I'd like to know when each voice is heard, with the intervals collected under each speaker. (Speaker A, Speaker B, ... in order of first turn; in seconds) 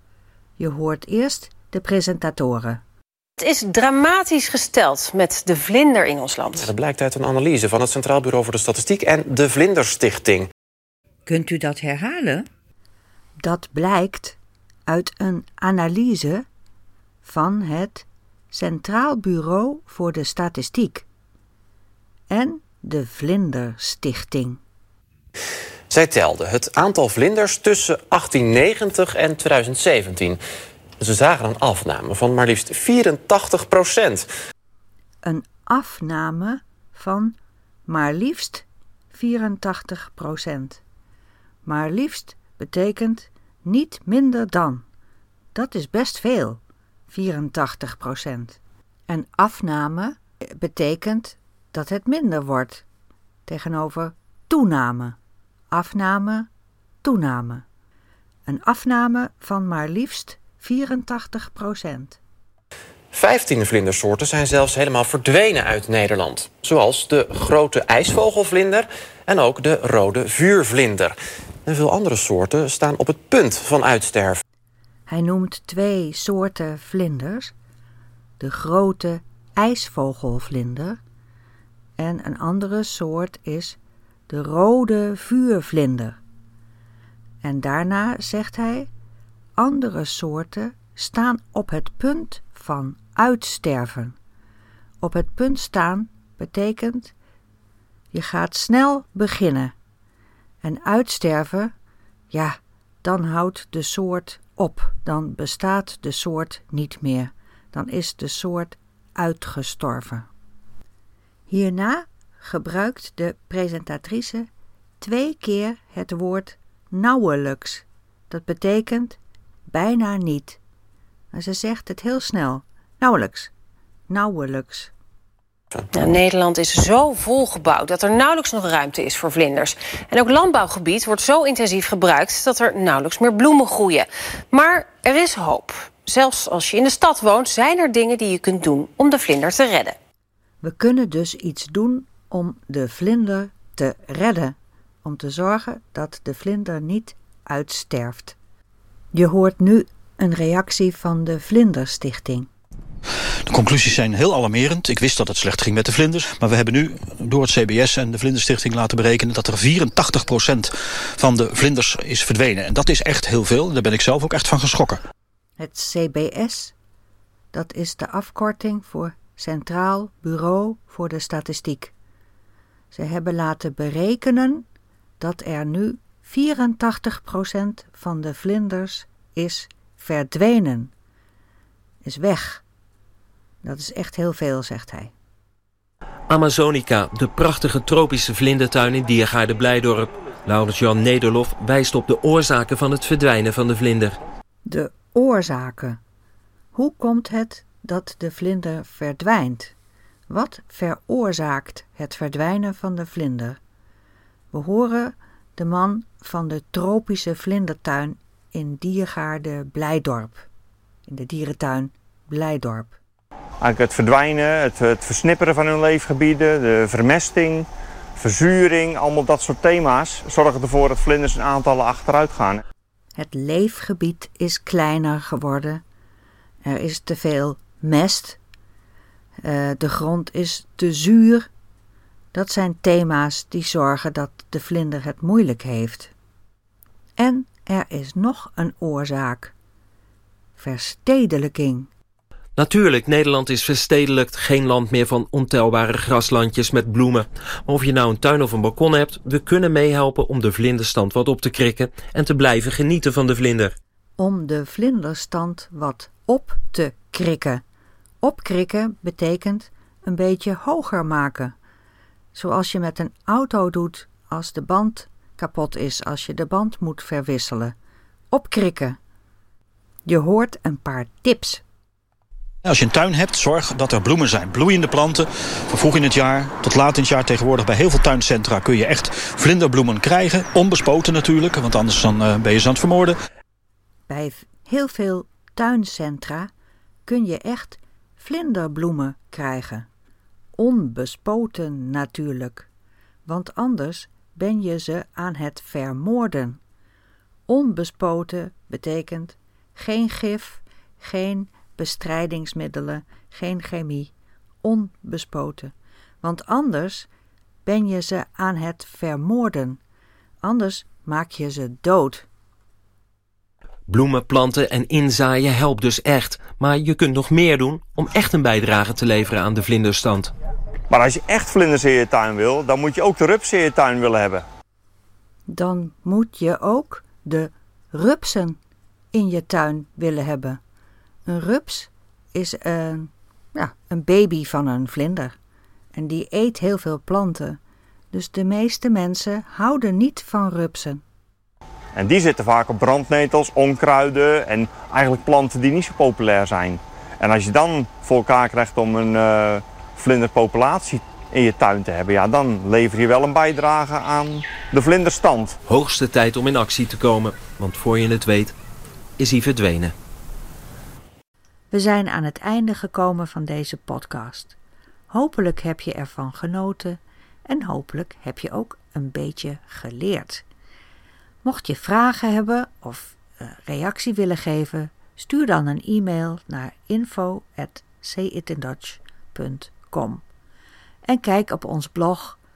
Speaker A: 0.6-2.8, 11.2-12.4, 13.4-16.4, 17.2-21.0, 22.3-24.6, 35.2-40.8, 41.6-44.9, 45.5-52.8, 53.5-55.2, 55.7-56.5, 57.0-57.6, 58.5-62.2, 75.1-77.5, 78.4-81.0, 82.0-83.8, 84.3-86.2, 87.4-88.9, 89.5-94.2, 95.0-97.1, 98.1-99.7, 100.6-101.7, 102.3-110.3, 111.5-114.5, 115.0-120.6, 121.3-123.5, 124.1-124.9, 140.6-148.4, 149.1-152.5, 165.6-166.7, 167.5-171.9, 172.9-174.7, 175.2-180.9, 182.0-182.6, 183.6-185.1, 194.7-196.0, 196.7-199.7, 200.3-203.6, 204.5-210.4, 211.1-213.0, 223.2-225.8, 226.6-228.4, 229.4-231.5, 232.3-236.1, 237.2-239.5, 240.6-241.9, 254.2-257.6, 258.2-261.5, 262.3-267.7, 268.3-269.0, 270.1-271.6, 284.1-286.5, 287.1-289.9, 290.6-292.7, 293.2-296.6, 297.5-307.1, 307.6-309.8, 310.4-312.2, 325.5-328.6, 329.1-330.6, 331.2-335.3, 335.9-337.6, 338.1-341.0, 361.7-364.6, 365.1-370.4, 371.4-380.2, 381.0-382.4
Speaker B: 3.4-6.7, 125.9-140.0
Speaker C: 6.5-10.5, 25.9-30.4, 31.0-34.2, 63.1-74.4
Speaker D: 153.5-165.0, 272.6-283.1
Speaker E: 186.3-194.2, 242.6-253.8, 313.9-320.3, 355.7-358.5, 359.2-359.9
Speaker F: 213.6-222.6, 320.9-324.4, 341.9-355.6